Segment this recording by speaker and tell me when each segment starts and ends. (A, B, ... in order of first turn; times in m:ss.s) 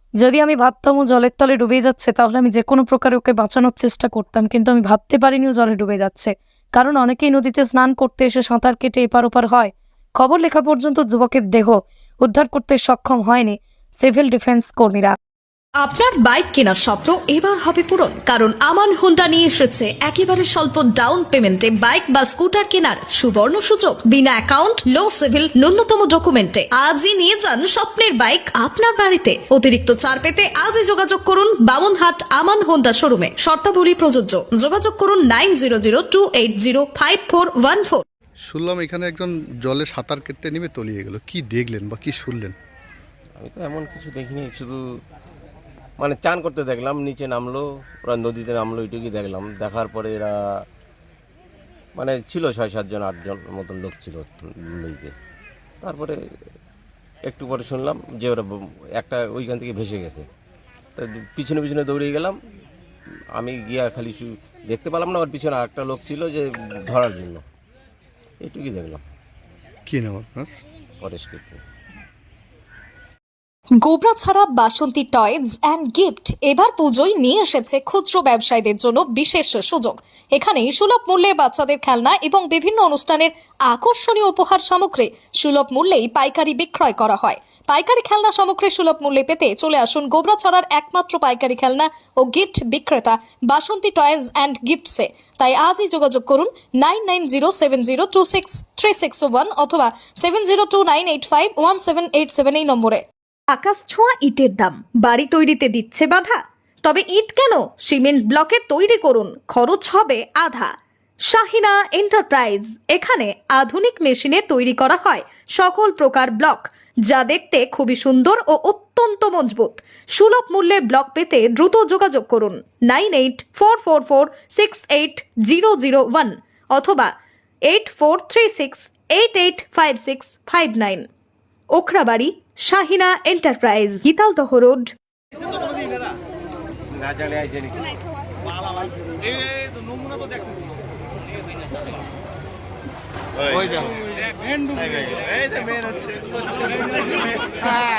0:00.2-0:15.2 A
0:15.8-0:38.0 B
0:38.5-0:42.6 C
0:43.4-0:44.8 D
0:46.0-0:50.4 D
0:52.0-0:55.2 D
0:55.8-0:56.2 D
0:57.3-1:00.3 D
1:01.0-1:02.4 D
1:03.4-1:07.4 D
1:08.4-1:09.0 D
1:09.9-1:10.5 C
1:11.0-1:11.6 D
1:13.8-1:50.8 B
1:51.3-2:07.1 B
2:07.6-2:11.1 B
2:11.7-2:14.9 B
2:16.9-2:17.9 D
2:24.9-2:27.0 D